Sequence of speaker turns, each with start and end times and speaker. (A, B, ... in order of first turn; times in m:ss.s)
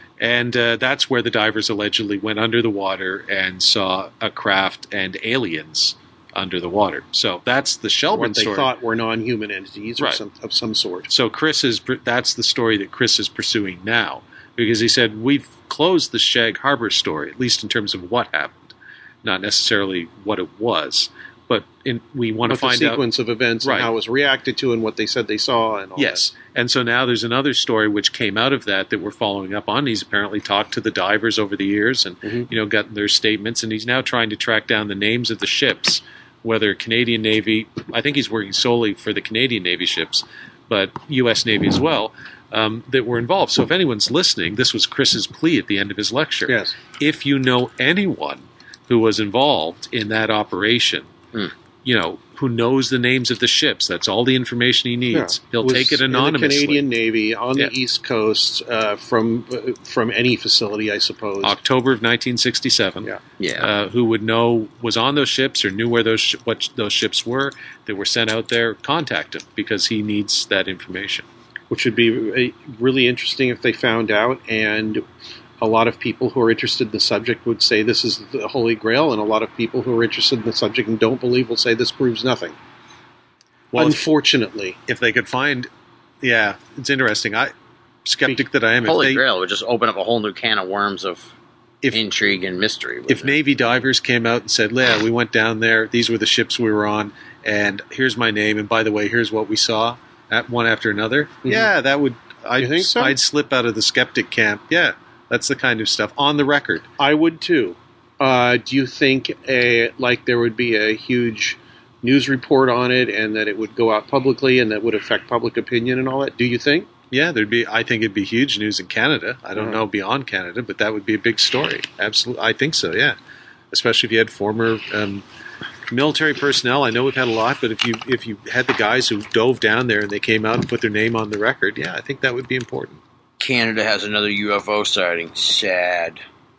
0:00.2-0:08.7 A
0:08.1-0:11.1 B
0:11.1-0:23.0 A
0:22.5-0:26.2 B
0:23.6-0:23.9 A
0:26.0-0:51.1 A
0:46.5-0:46.8 B
0:51.8-0:56.8 A
0:55.1-1:01.6 B
1:01.4-1:11.3 A
1:03.4-1:03.7 C
1:11.7-1:15.0 B
1:15.6-1:22.6 B
1:23.7-1:24.0 A
1:23.7-1:24.8 B
1:24.9-1:25.7 A
1:26.2-1:27.5 A
1:28.0-1:29.2 A
1:28.8-1:31.3 C
1:31.8-1:32.2 A
1:31.9-1:33.4 C
1:33.1-1:46.9 A
1:41.4-1:41.7 B
1:42.6-1:43.2 B
1:47.0-1:56.9 B
1:57.1-2:03.2 A
2:03.7-2:05.2 A
2:05.9-2:13.0 A
2:13.4-2:16.2 C